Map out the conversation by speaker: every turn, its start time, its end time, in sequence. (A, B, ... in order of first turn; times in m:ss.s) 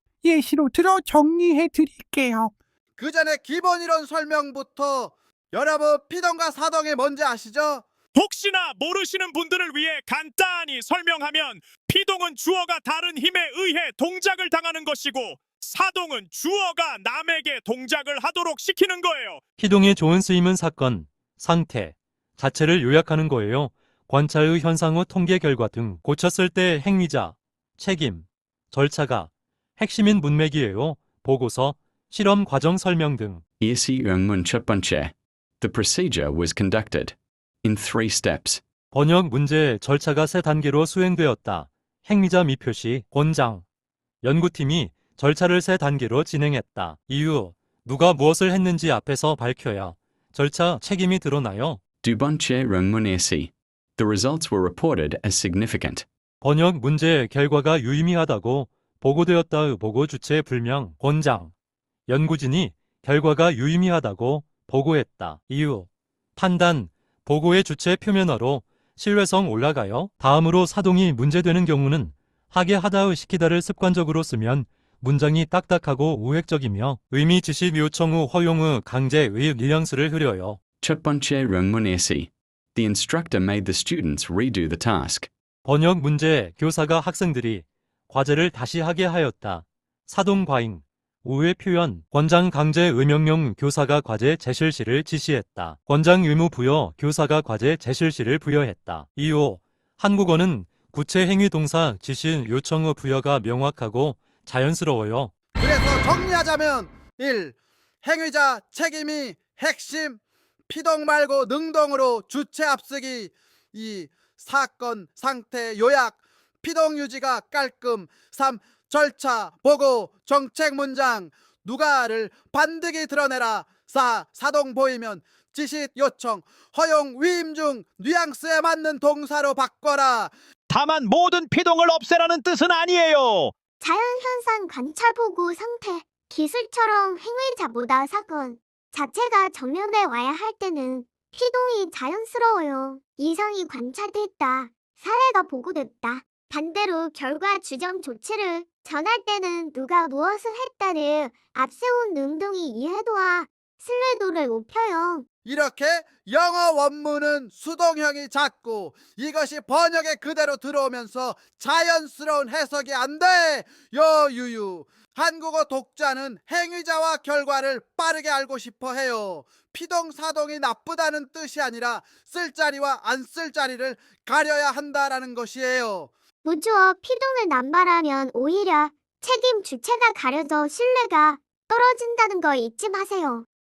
0:00.2-0:02.5 A
0:03.0-0:07.8 B
0:08.3-0:19.4 C
0:19.6-0:33.4 D
0:33.6-0:38.6 E
0:38.9-0:43.6 D
0:44.2-0:51.8 D
0:52.0-0:56.0 E
0:56.4-1:01.5 D
1:02.1-1:20.6 D
1:20.8-1:25.3 E
1:25.6-1:45.3 D
1:45.6-2:10.3 B
2:10.7-2:13.5 F
2:13.8-2:35.3 G
2:35.4-2:56.1 B
2:56.4-3:03.4 G